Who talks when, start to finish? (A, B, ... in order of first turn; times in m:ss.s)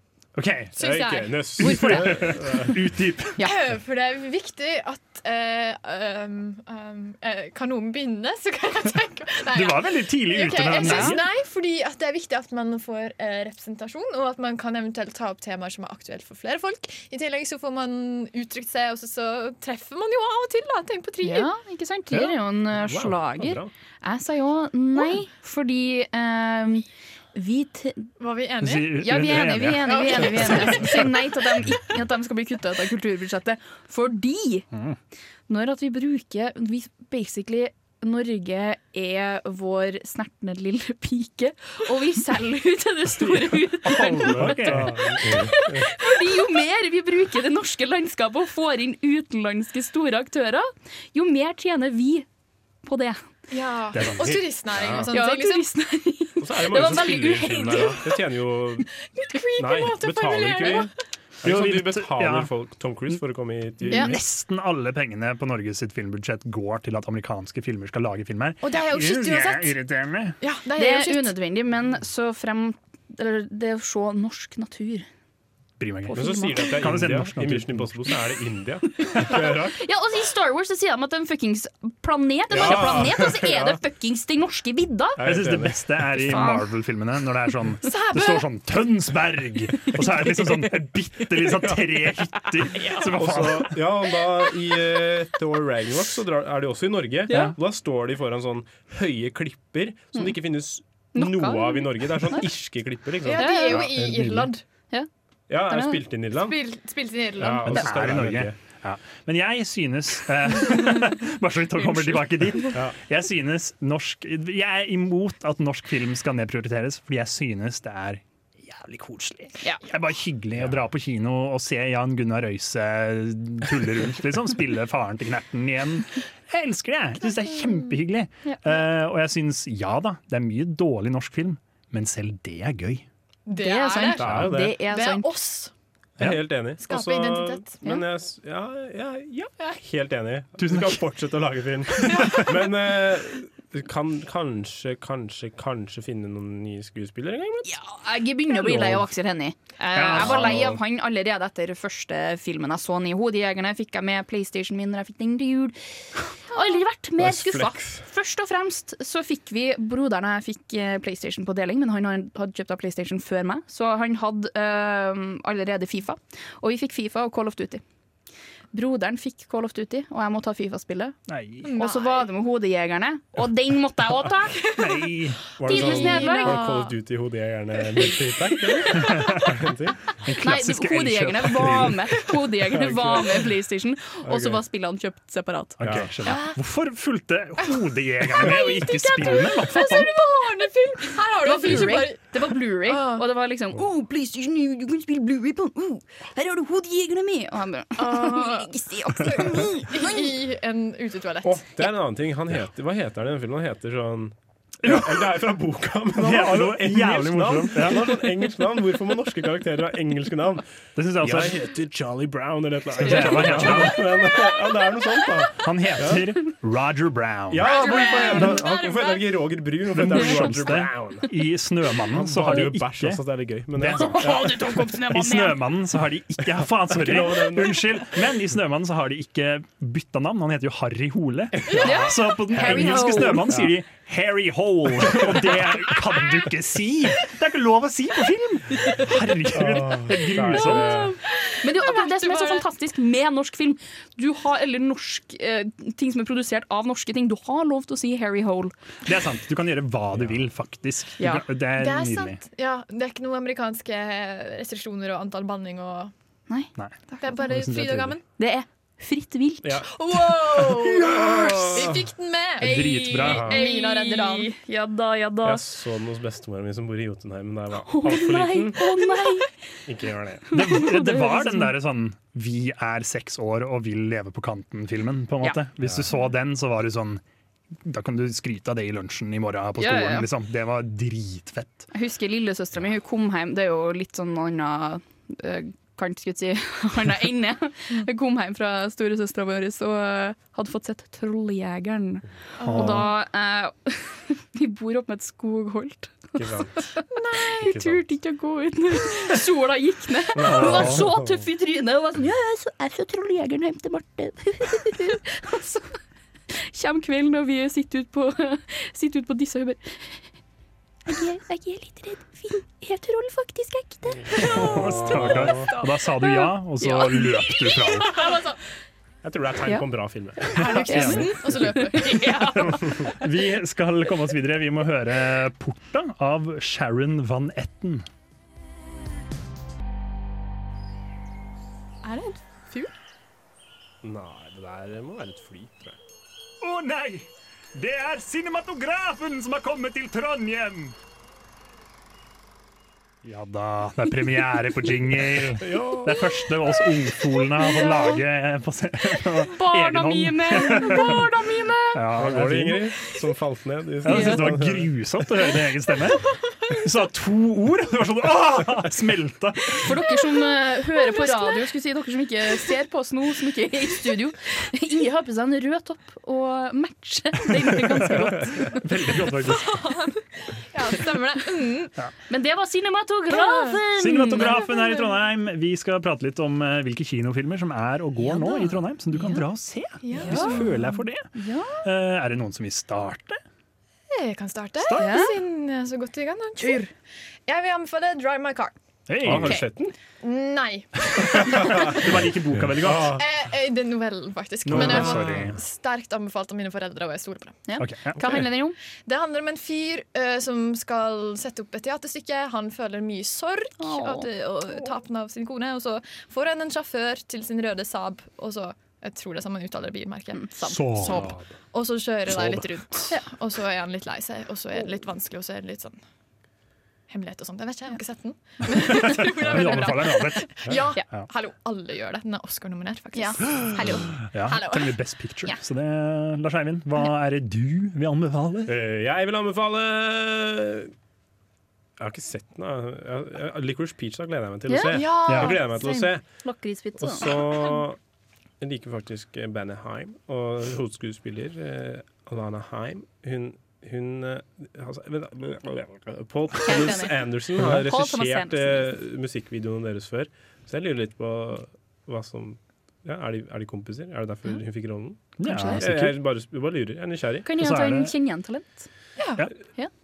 0:00.3-0:00.8 A
0:00.8-0:02.8 B
0:00.8-0:01.7 C
0:01.6-0:03.5 A
0:01.6-0:02.1 D
0:03.4-0:21.5 C
0:09.5-0:11.2 A
0:10.8-0:11.2 D
0:21.2-0:28.1 D
0:22.7-0:23.7 B
0:28.2-0:29.2 C
0:28.6-0:30.9 A
0:28.9-0:34.7 D
0:29.8-0:31.0 C
0:34.7-0:35.0 A
0:35.5-0:52.2 D
0:43.2-0:45.9 B
0:43.8-0:45.4 A
0:52.8-0:53.2 D
0:53.5-0:55.7 C
0:53.9-0:54.6 A
0:54.7-0:55.1 B
0:55.1-0:58.1 D
0:56.4-0:58.9 B
0:59.0-1:00.9 C
0:59.6-1:00.9 B
1:01.4-1:04.1 B
1:01.4-1:02.5 A
1:03.8-1:10.4 A
1:03.9-1:04.1 D
1:08.6-1:09.8 C
1:10.4-1:11.3 C
1:10.8-1:15.1 D
1:15.8-1:17.9 A
1:16.1-1:16.6 D
1:16.1-1:19.8 B
1:19.1-1:25.2 D
1:22.5-1:23.8 B
1:25.2-1:25.9 B
1:25.2-1:33.8 A
1:26.1-1:26.7 D
1:27.8-1:28.4 C
1:32.8-1:33.1 D
1:33.0-1:44.5 B
1:37.3-1:37.6 A
1:41.1-1:42.4 D
1:43.2-1:44.6 C
1:43.3-1:43.9 D
1:44.0-1:44.3 A
1:45.5-1:46.6 B
1:45.7-1:46.0 D
1:46.3-1:47.9 C
1:47.4-1:48.6 B
1:47.6-2:13.1 A
2:13.4-2:15.7 C
2:13.6-2:15.3 D
2:14.2-2:14.8 B
2:14.2-2:14.5 A
2:16.2-2:16.4 A
2:16.2-2:27.7 B
2:16.8-2:17.8 C
2:20.6-2:21.0 A
2:22.0-2:22.5 A
2:22.1-2:22.4 C
2:27.6-2:47.8 D
2:28.7-2:29.0 B
2:29.9-2:30.8 A
2:30.1-2:30.8 B
2:37.2-2:38.0 B
2:48.7-2:51.2 D
2:51.3-2:51.7 A
2:51.6-2:52.3 C
2:51.8-2:54.6 D
2:54.6-2:55.1 C
2:54.8-2:55.5 A
2:55.6-3:00.0 B
2:55.6-2:56.9 C
2:55.7-2:56.6 D
2:58.0-2:59.4 C
2:59.0-2:59.5 A
3:00.2-3:02.2 A
3:00.4-3:05.8 D
3:02.7-3:03.4 B
3:04.2-3:04.6 B
3:05.8-3:10.1 A
3:05.8-3:06.1 B
3:06.2-3:06.6 C
3:08.3-3:13.3 C
3:11.4-3:20.3 D
3:18.0-3:21.6 C
3:21.4-3:30.6 B
3:24.8-3:25.4 A
3:26.1-3:28.2 A
3:31.0-3:31.6 A
3:31.2-3:36.3 B
3:33.0-3:34.1 A
3:33.2-3:33.6 D
3:35.6-3:37.7 A
3:37.5-3:41.3 B
3:37.6-3:39.2 C
3:37.7-3:38.6 D
3:39.9-3:43.2 A
3:42.1-3:44.5 B
3:43.7-4:01.1 A
3:44.0-3:45.6 D
3:46.9-3:48.0 B
3:51.7-3:52.0 C
3:51.8-3:53.5 D
3:52.5-3:53.7 B
3:59.5-4:01.1 B
4:00.6-4:08.7 D
4:01.3-4:02.7 C
4:09.0-4:12.4 A
4:11.2-4:11.4 D
4:11.7-4:16.1 C
4:16.5-4:17.4 D
4:16.8-4:18.2 A
4:17.2-4:18.2 C
4:18.4-4:19.9 D
4:19.6-4:22.1 B
4:19.9-4:24.5 C
4:22.6-4:23.5 A
4:23.2-4:23.6 B
4:23.4-4:25.6 D
4:25.4-4:28.8 B
4:27.9-4:29.5 D
4:29.8-4:30.5 B
4:30.5-4:31.7 D
4:30.5-4:37.2 A
4:37.8-4:41.9 A
4:39.8-4:40.3 D
4:41.9-5:06.0 D
4:52.6-4:53.1 C
4:52.6-4:53.1 A
4:56.4-4:56.8 B
4:57.1-4:57.8 C
4:57.6-4:58.0 B
5:00.4-5:01.4 B
5:00.4-5:01.1 A
5:06.5-5:10.2 D
5:11.1-5:17.8 D
5:14.4-5:18.2 A
5:14.4-5:15.5 C
5:14.6-5:15.7 B
5:18.0-5:18.6 C
5:19.2-5:20.6 B
5:20.5-5:22.9 C
5:20.5-5:22.9 D
5:20.6-5:28.0 A
5:32.0-5:32.9 C
5:34.0-5:36.0 B
5:36.6-5:41.0 A
5:43.2-5:51.3 A
5:45.6-5:46.2 B
5:47.8-5:48.2 D
5:49.4-5:52.0 D
5:51.9-5:52.9 A
5:52.2-5:54.9 B
5:54.0-6:00.0 A
5:54.1-5:54.5 D
5:59.8-6:08.8 D
6:01.0-6:01.6 C
6:07.6-6:09.9 A
6:09.4-6:11.9 C
6:12.3-6:14.6 D
6:13.3-6:13.8 C
6:13.9-6:21.3 A
6:14.5-6:14.8 C
6:18.2-6:19.4 D
6:20.0-6:21.0 C
6:20.2-6:20.7 D
6:21.3-6:21.8 D
6:21.8-6:23.4 A
6:24.1-6:26.9 C
6:24.8-6:25.3 A
6:24.9-6:25.3 D
6:26.6-6:26.9 D
6:27.4-6:28.7 C
6:29.1-6:29.7 A
6:29.2-6:29.9 B
6:30.2-6:32.0 C
6:31.6-6:32.0 B
6:31.9-6:33.2 A
6:32.7-6:33.2 B
6:33.1-6:37.6 C
6:34.6-6:35.6 A
6:34.7-6:35.5 B
6:37.7-6:38.8 D
6:37.8-6:38.3 A
6:39.0-6:56.0 C
6:43.8-6:44.3 D
6:50.3-6:51.2 D
6:50.6-6:51.4 A
6:51.1-6:51.4 B
6:52.3-6:52.8 B
6:57.1-7:05.0 C
6:58.9-7:01.2 A
7:03.1-7:04.1 D
7:04.3-7:08.7 A
7:08.6-7:10.9 B
7:12.0-7:16.2 B
7:14.7-7:17.3 D
7:14.9-7:15.6 C
7:15.3-7:15.6 A
7:17.0-7:18.0 B
7:18.6-7:37.4 B
7:26.6-7:28.9 D
7:35.4-7:36.2 A
7:35.4-7:35.8 D
7:37.4-7:38.9 D
7:37.5-7:38.1 A
7:39.2-7:39.5 C